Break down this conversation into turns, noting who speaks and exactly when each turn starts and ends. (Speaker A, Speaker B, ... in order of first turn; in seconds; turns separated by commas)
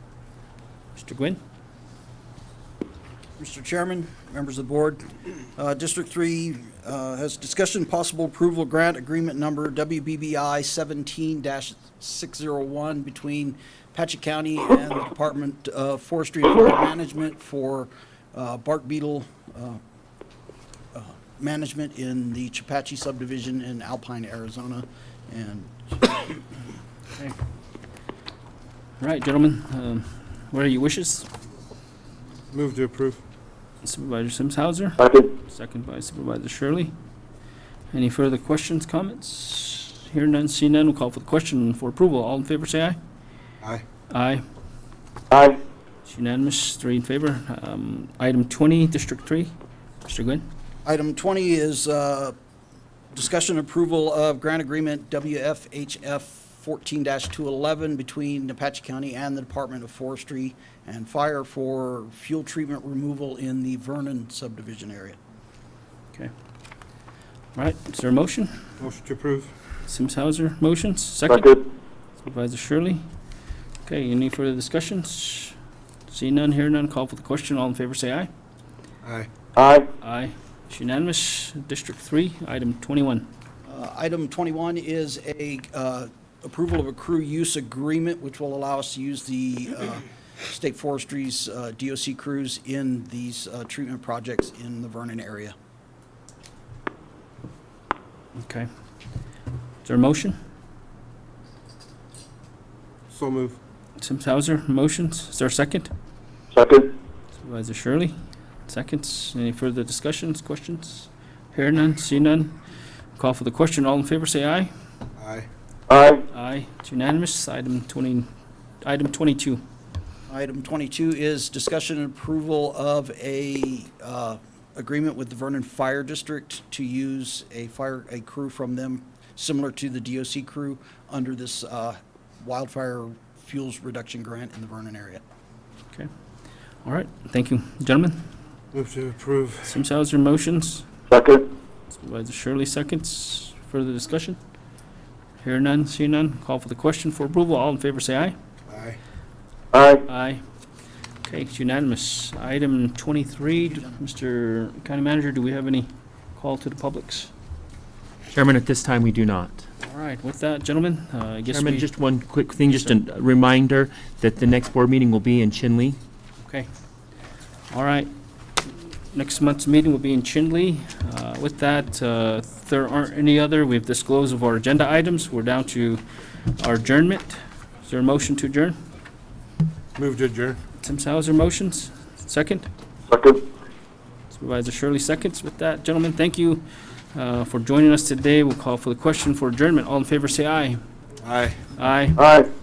Speaker A: 1.0-1.4, Speaker B: 3.4-5.0, Speaker B: 5.6-19.8, Speaker B: 20.9-26.4, Speaker A: 29.0-31.3, Speaker C: 32.5-33.2, Speaker A: 33.8-36.9, Speaker D: 35.0-35.3, Speaker A: 37.9-43.0, Speaker A: 44.1-44.4, Speaker D: 45.3-45.6, Speaker A: 46.0-49.5, Speaker A: 50.0-50.4, Speaker B: 50.9-52.4, Speaker B: 53.1-65.2, Speaker A: 67.5-68.6, Speaker C: 68.8-69.5, Speaker A: 69.9-71.6, Speaker D: 71.3-71.7, Speaker A: 72.2-73.0, Speaker A: 73.9-75.5, Speaker A: 76.1-78.3, Speaker C: 79.0-79.3, Speaker D: 79.6-79.9, Speaker A: 80.0-83.3, Speaker B: 83.7-95.5, Speaker A: 98.4-98.7, Speaker A: 99.8-100.4, Speaker C: 103.1-103.6, Speaker A: 104.0-105.9, Speaker D: 106.5-106.9, Speaker A: 107.3-108.1, Speaker A: 108.7-112.6, Speaker A: 113.2-114.7, Speaker C: 115.2-115.5, Speaker D: 115.9-116.2, Speaker A: 116.3-118.3, Speaker A: 118.8-119.6, Speaker B: 120.3-135.2, Speaker A: 136.8-138.2, Speaker C: 138.7-139.7, Speaker A: 139.7-140.9, Speaker D: 141.1-141.5, Speaker A: 141.9-144.4, Speaker A: 145.4-148.3, Speaker C: 148.7-149.0, Speaker D: 149.7-150.1, Speaker A: 150.1-150.4, Speaker A: 151.2-157.3, Speaker E: 158.3-159.6, Speaker A: 159.8-161.9, Speaker E: 161.5-166.0, Speaker A: 162.7-163.0, Speaker A: 167.7-168.1, Speaker A: 169.1-178.8, Speaker C: 180.0-180.6, Speaker A: 180.8-182.7, Speaker D: 183.1-183.4, Speaker A: 184.3-186.6, Speaker A: 187.1-190.8, Speaker C: 191.2-191.6, Speaker A: 191.8-192.2, Speaker D: 192.2-192.5